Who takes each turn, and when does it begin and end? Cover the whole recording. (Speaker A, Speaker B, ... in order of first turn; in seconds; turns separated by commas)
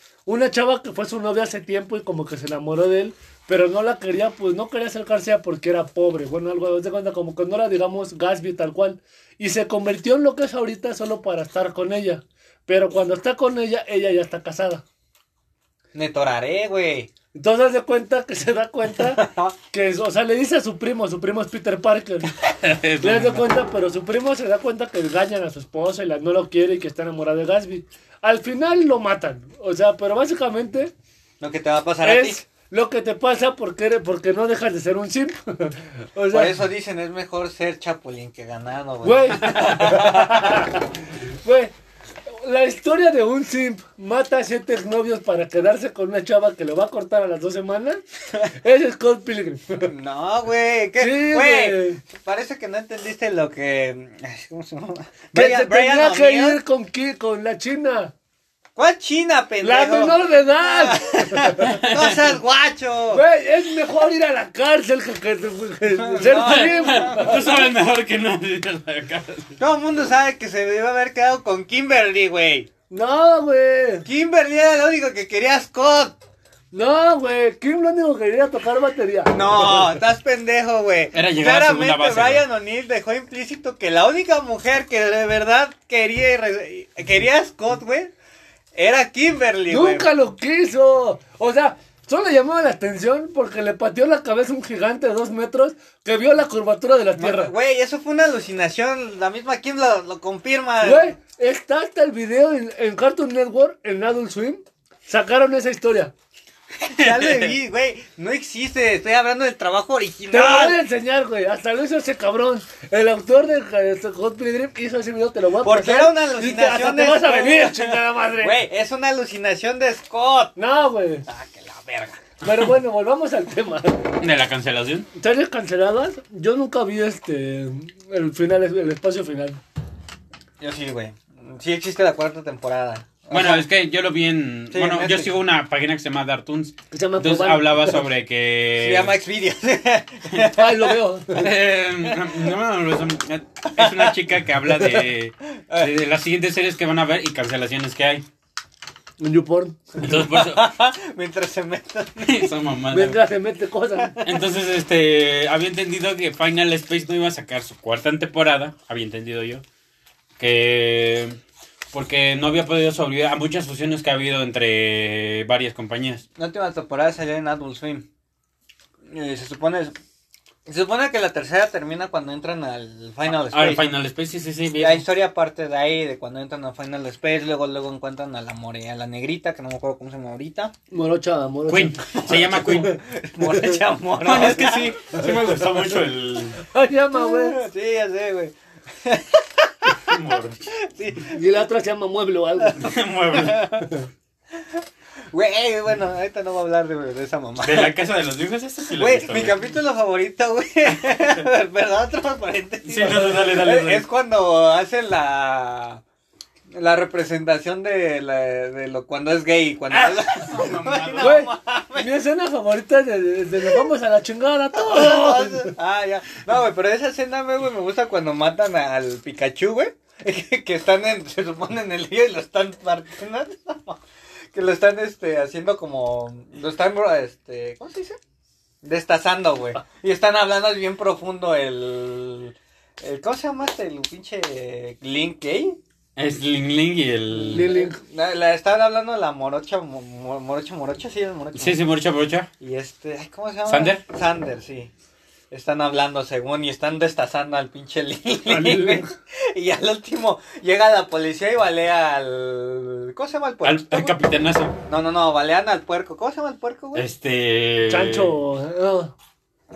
Speaker A: 0.3-14.8, Speaker B: 15.9-17.1, Speaker A: 17.3-22.4, Speaker B: 19.0-19.5, Speaker C: 22.4-23.5, Speaker A: 23.0-30.9, Speaker B: 31.4-32.4, Speaker A: 32.0-36.6, Speaker B: 36.3-40.6, Speaker A: 39.0-41.7, Speaker A: 42.3-48.0, Speaker A: 48.5-49.9, Speaker B: 49.8-56.6, Speaker A: 51.0-52.0, Speaker A: 55.3-58.1, Speaker B: 58.8-63.2, Speaker A: 59.6-61.8, Speaker C: 61.6-62.2, Speaker A: 63.1-67.5, Speaker B: 66.0-67.5, Speaker C: 66.3-69.6, Speaker B: 69.6-72.7, Speaker A: 72.9-74.1, Speaker B: 74.0-76.2, Speaker A: 76.7-79.9, Speaker B: 79.3-88.1, Speaker C: 81.1-82.4, Speaker B: 88.8-90.1, Speaker A: 89.7-97.5, Speaker B: 97.2-101.1, Speaker A: 100.8-106.1, Speaker B: 106.9-110.8, Speaker C: 106.9-107.6, Speaker A: 110.3-118.6, Speaker B: 115.6-120.6, Speaker A: 120.6-121.3, Speaker B: 121.3-122.2, Speaker A: 122.4-124.1, Speaker C: 124.2-125.1, Speaker A: 125.2-129.6, Speaker B: 130.6-133.7, Speaker C: 133.3-139.2, Speaker B: 134.7-135.3, Speaker A: 136.9-138.1, Speaker B: 138.8-141.0, Speaker A: 140.5-141.5, Speaker C: 141.3-148.2, Speaker B: 142.0-142.5, Speaker B: 143.7-145.9, Speaker A: 149.2-150.0, Speaker C: 150.0-150.6, Speaker B: 150.0-152.5, Speaker C: 152.2-153.2, Speaker A: 152.9-154.2, Speaker B: 154.0-154.4, Speaker C: 154.2-159.6, Speaker C: 160.4-161.4, Speaker C: 161.9-166.2, Speaker B: 166.4-168.1, Speaker B: 169.1-170.0, Speaker B: 170.7-173.9, Speaker C: 173.3-175.0, Speaker B: 174.8-180.7, Speaker A: 180.9-183.8, Speaker C: 181.7-182.9, Speaker B: 182.3-184.9, Speaker C: 184.2-186.6, Speaker A: 185.1-185.7, Speaker A: 186.6-187.6, Speaker B: 187.1-190.2, Speaker C: 190.1-190.7, Speaker B: 190.7-191.4, Speaker A: 191.3-192.9, Speaker C: 192.8-193.7, Speaker B: 193.3-193.9, Speaker B: 194.5-198.0, Speaker C: 197.6-199.6, Speaker B: 199.0-206.0, Speaker C: 202.8-204.1, Speaker B: 206.7-212.1, Speaker C: 209.9-211.4, Speaker A: 211.2-215.7, Speaker B: 214.8-224.0, Speaker B: 224.5-228.2, Speaker B: 228.8-235.8, Speaker C: 236.2-237.7, Speaker B: 237.3-241.8, Speaker A: 237.4-238.0, Speaker C: 241.6-242.5, Speaker B: 242.6-244.9, Speaker C: 243.7-244.0, Speaker B: 245.5-254.2, Speaker A: 248.4-249.1, Speaker C: 253.6-254.8, Speaker B: 254.9-257.1, Speaker C: 256.9-258.3, Speaker A: 257.9-259.1